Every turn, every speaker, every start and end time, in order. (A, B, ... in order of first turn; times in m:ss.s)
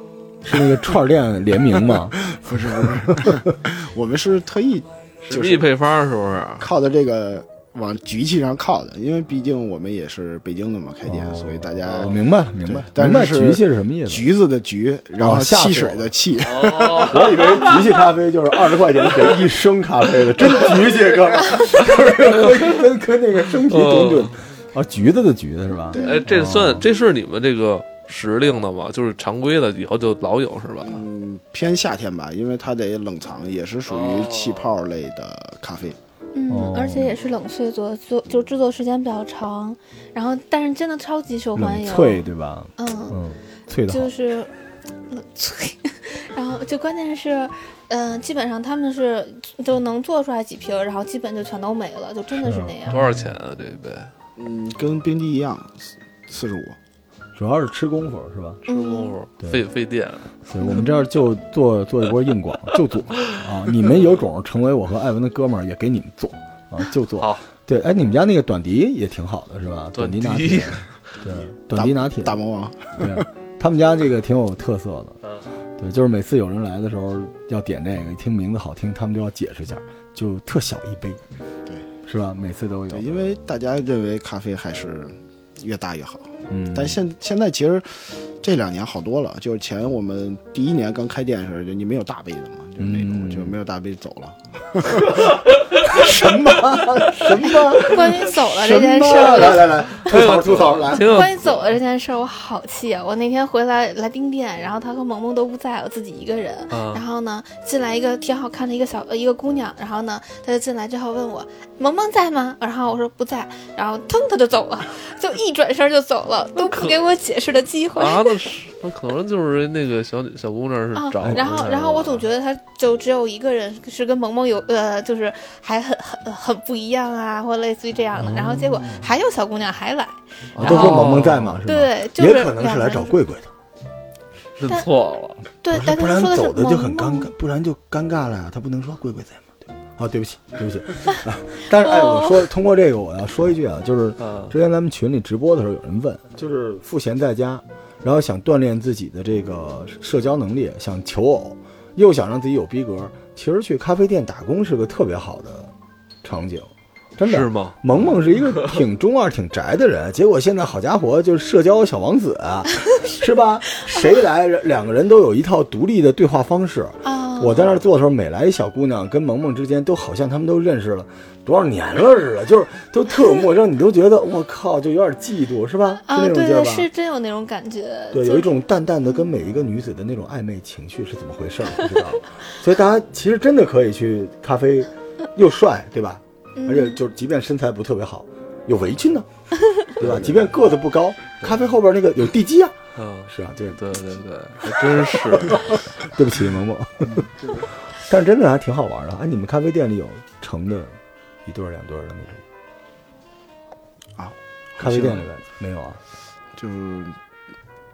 0:00.4-0:03.5 A
0:01.9-0:05.7 B
0:05.2-0:06.7 C
0:06.6-0:17.0 B
0:11.1-0:14.3 A
0:15.2-0:26.9 A
0:16.4-0:17.9 C
0:21.6-0:22.8 C
0:23.5-0:24.4 C
0:25.9-0:26.2 B
0:25.9-0:26.2 D
0:25.9-0:31.0 C
0:30.8-0:36.0 B
0:33.9-0:34.7 C
0:36.3-0:43.2 D
0:36.5-0:37.2 A
0:41.6-0:44.1 A
0:43.9-0:44.5 D
0:45.1-0:53.0 D
0:52.3-0:53.3 A
0:52.9-0:54.1 C
0:54.4-0:56.8 B
0:57.4-0:58.6 A
0:58.7-1:00.3 C
0:58.7-0:59.2 D
0:59.4-0:59.6 A
1:00.5-1:12.4 A
1:00.6-1:01.1 D
1:02.7-1:04.0 C
1:07.2-1:07.4 C
1:10.0-1:10.9 C
1:11.3-1:13.3 B
1:13.0-1:15.2 A
1:15.8-1:21.2 A
1:22.0-1:23.3 A
1:22.9-1:36.1 B
1:26.5-1:27.0 A
1:32.8-1:33.6 A
1:35.7-1:41.4 A
1:37.5-1:40.1 D
1:40.0-1:41.6 C
1:40.9-1:58.4 D
1:46.7-1:47.0 C
1:56.6-1:57.0 C
1:58.0-2:02.3 C
2:01.0-2:13.2 D
2:01.2-2:01.7 A
2:08.2-2:09.1 A
2:10.5-2:11.6 C
2:10.6-2:13.5 A
2:14.6-2:15.4 C
2:15.6-2:17.3 D
2:15.7-2:35.7 A
2:21.8-2:22.4 D
2:24.2-2:24.5 C
2:36.2-2:56.9 A
2:37.2-2:38.8 C
2:47.0-2:47.8 D
2:56.0-2:58.6 D
2:58.1-3:09.3 A
3:06.6-3:07.0 D
3:10.0-3:13.8 A
3:10.0-3:10.5 C
3:13.0-3:15.8 C
3:14.8-3:22.4 A
3:24.2-3:25.3 B
3:24.8-3:26.0 A
3:26.6-3:27.2 B